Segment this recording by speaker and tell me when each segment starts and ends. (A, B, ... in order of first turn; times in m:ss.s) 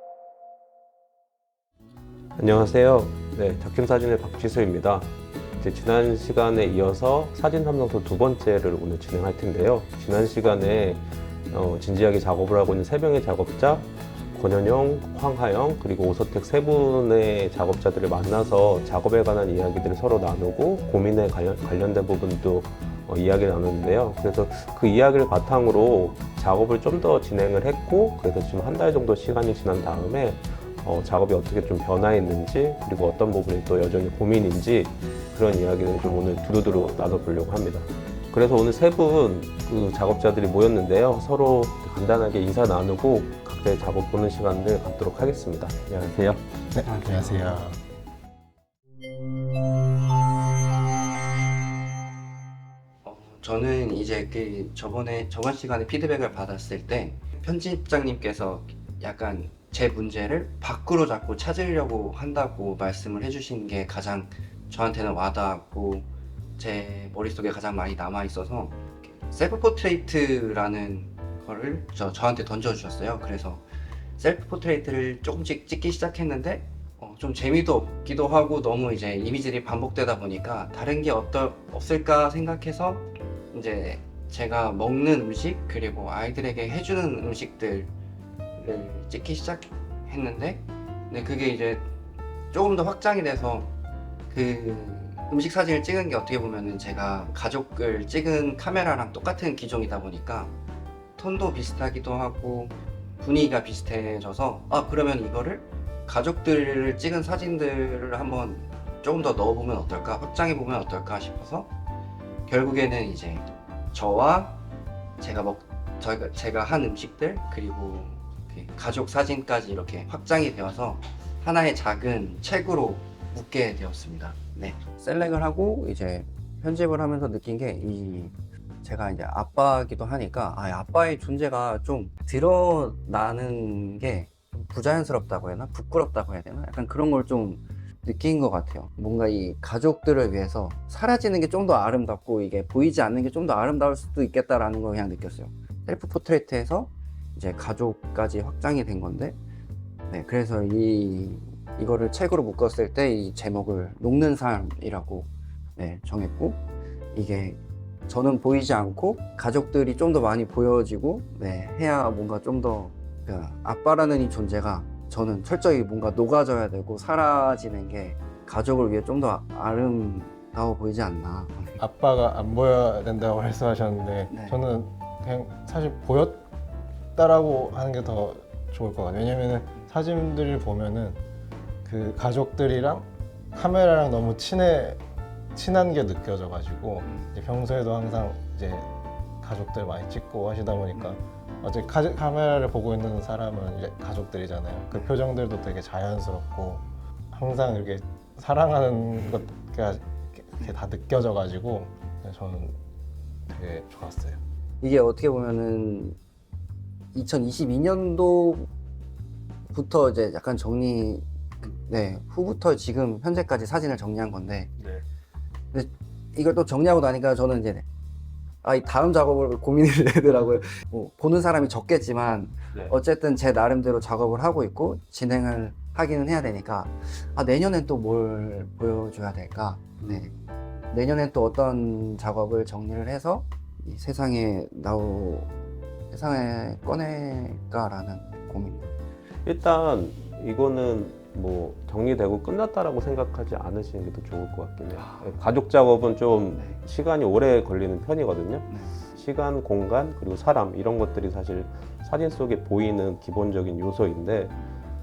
0:02.4-0:05.1 A
0:05.6-0:46.4 A
0:46.7-0:47.8 B
0:53.0-1:06.1 C
1:06.6-1:13.7 C
1:14.2-1:27.9 C
1:28.6-1:31.9 C
1:32.5-1:33.7 C
1:34.3-1:40.5 C
1:41.2-1:51.7 C
1:52.5-1:54.6 C
1:55.2-2:29.4 C
2:30.1-2:36.6 C
2:37.1-2:51.8 C
2:51.8-2:56.4 B
2:54.3-2:54.6 C
2:57.1-3:01.2 B
3:01.8-3:05.0 B
3:05.5-3:08.9 B
3:07.0-3:07.3 C
3:09.4-3:22.8 B
3:23.5-3:24.4 B
3:24.8-3:26.2 C
3:27.1-3:28.7 C
3:29.7-3:34.7 C
3:35.7-3:37.9 C
3:38.6-3:50.3 C
3:50.0-3:50.3 A
3:50.9-3:55.5 C
3:56.1-3:58.9 C
3:59.4-4:14.5 A
4:04.9-4:05.3 C
4:06.5-4:06.8 C
4:08.7-4:09.0 C